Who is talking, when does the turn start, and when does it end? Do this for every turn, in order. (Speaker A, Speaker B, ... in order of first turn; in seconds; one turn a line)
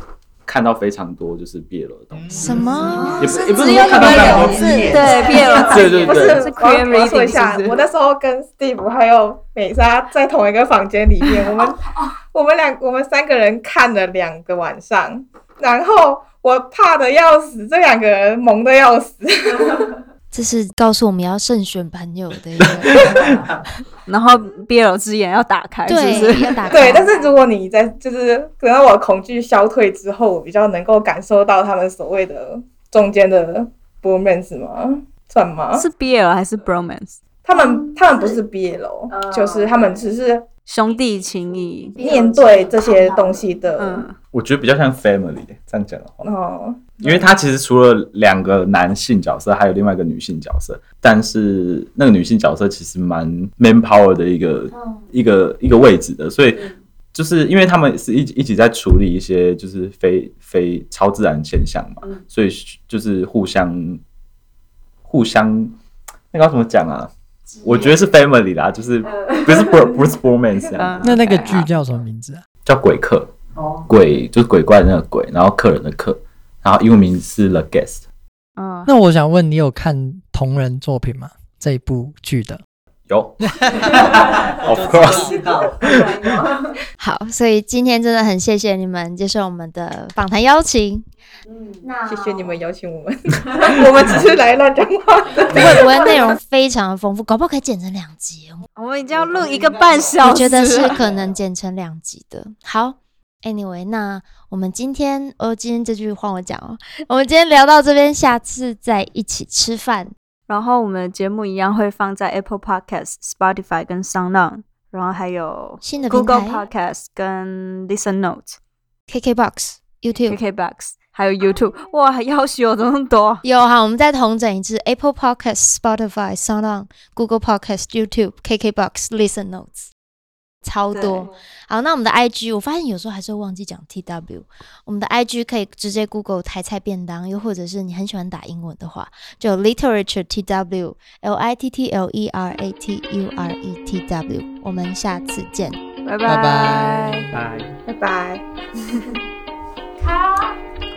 Speaker A: 0.5-2.6
Speaker B: 2.1-3.0
Speaker C: 2.4-5.0
Speaker D: 2.5-2.8
Speaker E: 2.9-6.1
Speaker A: 3.2-4.8
Speaker F: 3.6-7.7
Speaker D: 3.8-5.6
Speaker G: 5.0-19.9
Speaker A: 5.6-6.5
Speaker C: 20.3-23.0
Speaker A: 22.6-23.2
Speaker D: 23.0-23.4
Speaker F: 24.1-26.7
Speaker C: 25.9-27.1
Speaker E: 26.6-27.3
Speaker G: 26.7-35.9
Speaker F: 35.7-37.2
Speaker G: 37.4-40.5
Speaker E: 37.5-38.4
Speaker F: 40.7-42.2
Speaker E: 41.8-43.6
Speaker G: 42.0-44.1
Speaker F: 43.8-44.2
Speaker A: 44.3-46.2
Speaker G: 46.2-47.3
Speaker A: 47.0-64.0
Speaker E: 54.7-55.1
Speaker A: 65.0-65.7
Speaker A: 66.3-67.1
Speaker E: 67.5-68.1
Speaker A: 67.6-71.2
Speaker F: 70.8-71.7
Speaker B: 71.0-72.4
Speaker A: 72.7-73.3
Speaker D: 73.5-73.9
Speaker A: 73.9-78.0
Speaker F: 78.6-78.9
Speaker B: 78.9-82.6
Speaker A: 83.1-86.0
Speaker B: 83.5-85.3
Speaker D: 84.8-85.8
Speaker F: 85.9-86.7
Speaker C: 87.0-91.1
Speaker F: 91.5-91.8
Speaker E: 91.8-92.6
Speaker G: 92.1-96.3
Speaker C: 95.5-98.6
Speaker F: 98.8-101.0
Speaker D: 99.3-99.7
Speaker C: 100.2-110.1
Speaker F: 110.5-118.6
Speaker C: 115.8-116.6
Speaker C: 119.1-120.4
Speaker F: 120.2-123.4
Speaker C: 123.4-129.9
Speaker C: 130.6-145.8
Speaker F: 130.9-131.3
Speaker F: 146.1-147.3
Speaker B: 146.2-147.7
Speaker A: 147.3-147.7
Speaker G: 147.9-148.4
Speaker E: 150.0-150.3